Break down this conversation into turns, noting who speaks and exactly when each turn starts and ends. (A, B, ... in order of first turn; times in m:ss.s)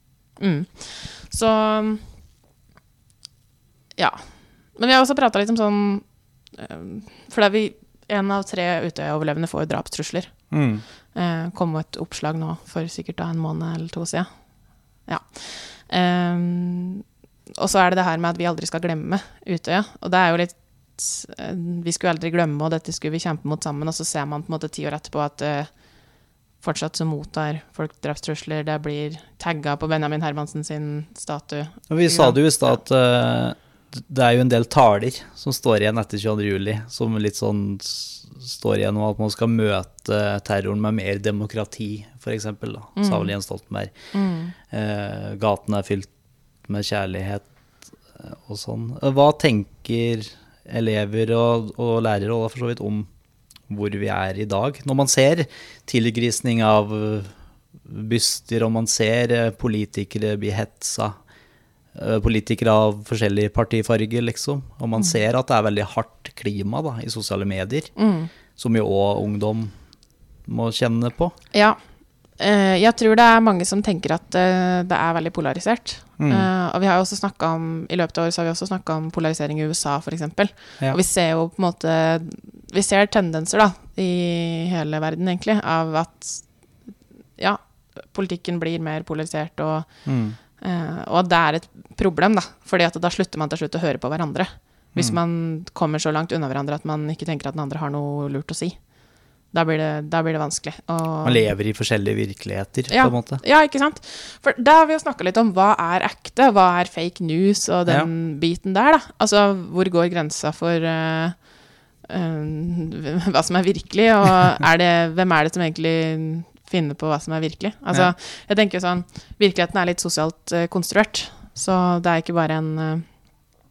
0:00.4-0:02.1 A
0:04.0-0:10.6 A
0:10.5-0:10.8 B
0:11.1-0:17.0 A
0:17.6-0:32.8 A
0:31.9-0:44.1 B
0:43.0-0:43.4 A
0:44.1-0:44.6 A
0:44.7-0:46.1 B
0:46.6-0:47.5 B
0:48.1-0:53.1 B
0:53.7-1:01.2 B
1:01.9-1:07.9 B
1:08.0-1:08.3 A
1:08.6-1:09.7 B
1:10.5-1:11.3 B
1:11.5-1:11.8 A
1:12.4-1:38.9 A
1:16.2-1:16.5 B
1:30.0-1:30.4 B
1:39.5-1:41.5 A
1:41.2-1:43.4 B
1:42.9-2:03.4 A